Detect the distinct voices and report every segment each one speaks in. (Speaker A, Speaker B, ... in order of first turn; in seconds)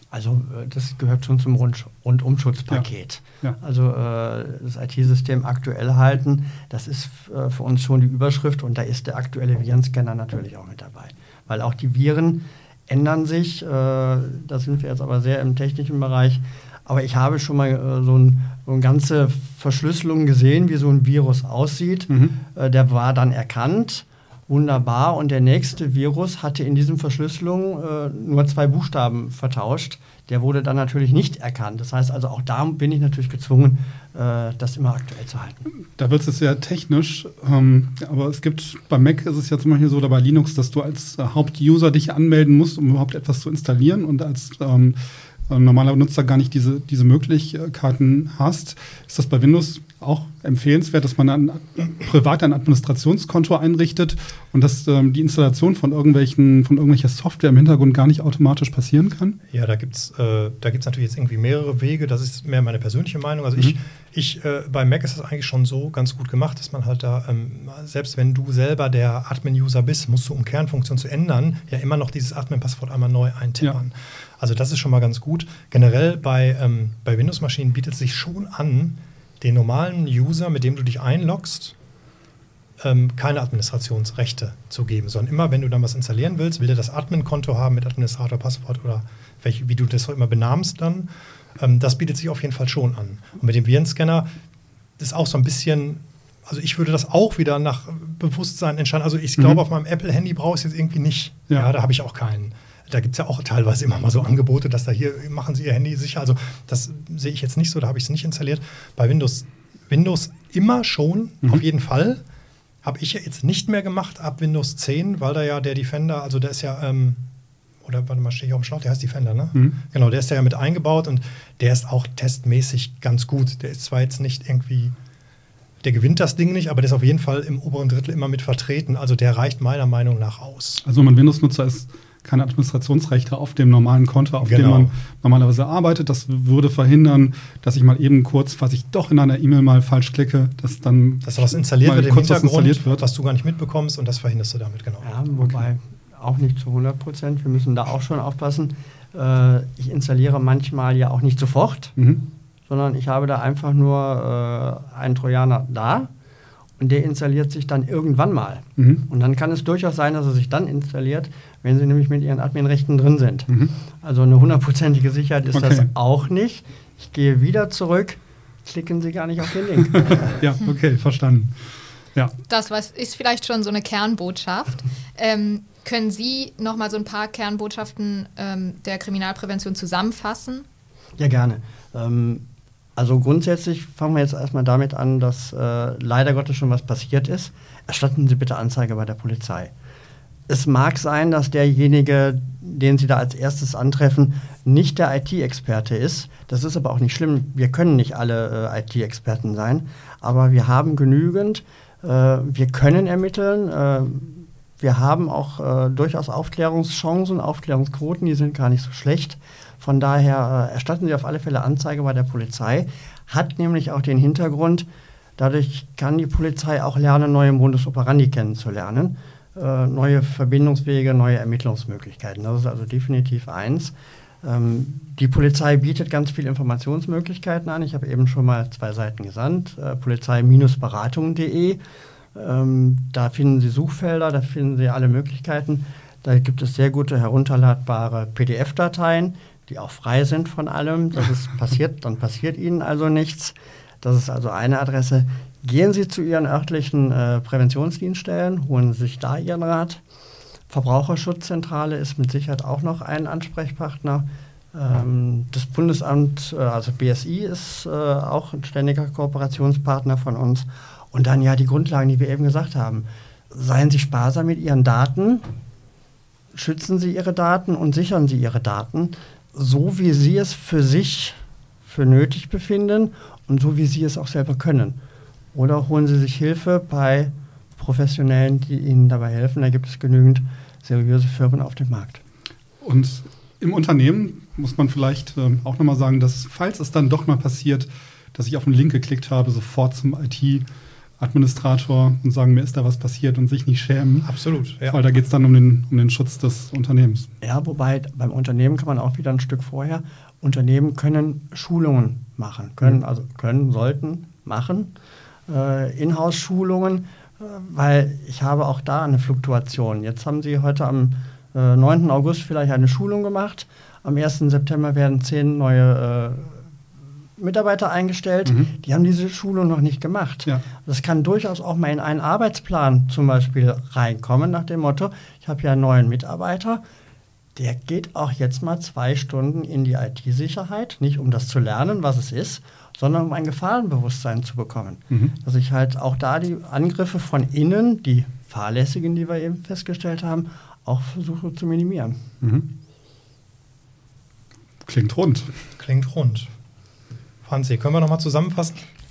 Speaker A: 0.1-35.7, 145.0-152.0, 152.7-156.1, 156.8-163.5, 164.0-170.4, 181.2-182.4, 183.0-189.7, 190.5-214.9, 215.4-231.8, 232.3-250.0, 250.7-265.5, 266.5-275.0, 275.5-282.2, 297.4-304.9, 305.5-316.7, 317.4-326.8, 327.6-342.2
Speaker B: 22.1-22.4, 36.0-45.0, 45.5-59.4, 130.8-142.8, 152.0-152.3, 158.8-159.0, 163.5-163.7, 165.5-165.9, 169.9-172.4, 282.8-290.6, 291.2-294.3, 294.9-297.3, 342.4-342.7, 344.8-345.5
Speaker C: 59.5-81.8, 82.8-94.3, 95.0-112.2, 112.8-117.2, 117.8-125.0, 125.8-130.8, 134.4-134.9, 141.2-145.1, 294.2-295.0, 345.8-346.5, 347.4-348.8
Speaker D: 172.5-180.6